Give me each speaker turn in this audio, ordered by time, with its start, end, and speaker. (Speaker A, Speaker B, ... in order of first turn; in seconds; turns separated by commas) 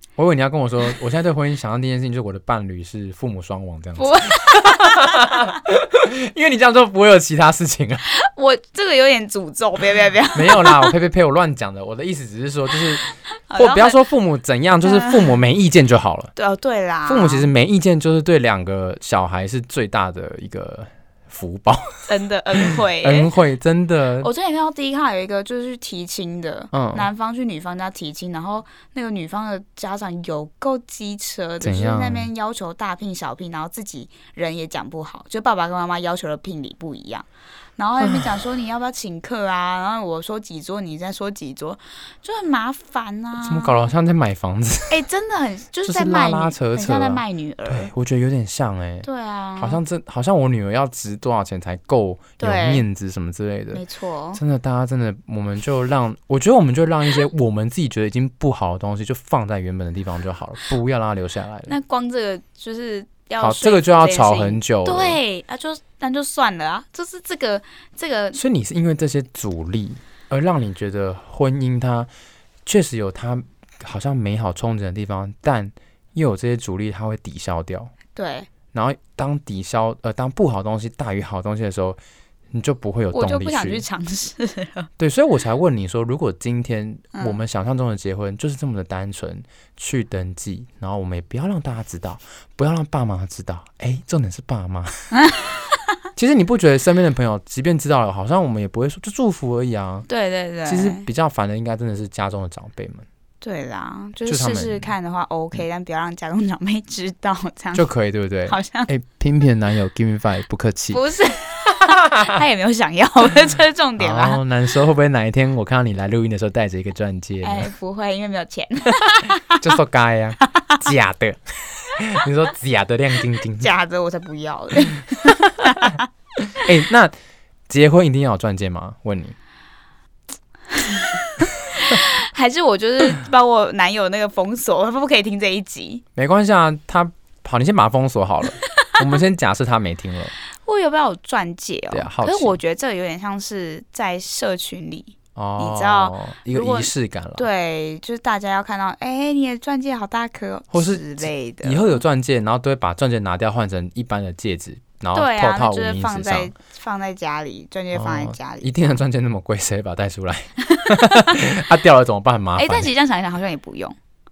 Speaker A: 0.2-8.0, Speaker B: 4.0-5.4, Speaker B: 8.1-10.9, Speaker A: 10.3-13.0, Speaker B: 13.1-14.0, Speaker A: 13.6-16.3, Speaker B: 14.8-15.3, Speaker B: 16.4-17.5, Speaker A: 17.1-22.1, Speaker B: 22.1-23.3, Speaker A: 22.6-24.3, Speaker B: 24.2-37.3, Speaker A: 26.7-27.1, Speaker A: 31.6-32.3, Speaker B: 37.8-43.9, Speaker A: 38.0-38.3, Speaker A: 43.4-45.0, Speaker B: 44.9-47.9, Speaker A: 45.9-49.1, Speaker B: 49.0-49.8, Speaker A: 49.6-53.8, Speaker B: 52.4-52.8, Speaker B: 53.7-54.4, Speaker A: 54.3-61.7, Speaker B: 61.7-68.4, Speaker A: 63.4-65.2, Speaker A: 68.3-72.1, Speaker A: 72.7-77.9, Speaker B: 78.2-78.5, Speaker A: 78.7-82.0, Speaker A: 82.5-83.8, Speaker B: 83.1-84.9, Speaker A: 85.0-95.1, Speaker B: 95.1-95.8, Speaker A: 96.2-100.1, Speaker B: 100.1-101.1, Speaker A: 100.7-103.0, Speaker B: 103.4-107.9, Speaker A: 104.3-104.9, Speaker A: 107.7-111.0, Speaker B: 108.5-108.9, Speaker B: 110.9-114.4, Speaker A: 114.0-117.7, Speaker B: 117.4-119.6, Speaker A: 119.5-123.7, Speaker B: 123.6-126.1, Speaker A: 125.2-125.9, Speaker A: 126.5-127.1, Speaker A: 127.7-129.3, Speaker B: 130.7-136.0, Speaker A: 136.2-140.3, Speaker B: 138.7-139.0, Speaker B: 140.6-152.0, Speaker A: 141.9-142.6, Speaker A: 145.4-147.5, Speaker A: 150.7-156.5, Speaker B: 155.1-159.0, Speaker A: 157.9-162.9, Speaker B: 160.6-161.4, Speaker B: 162.6-164.0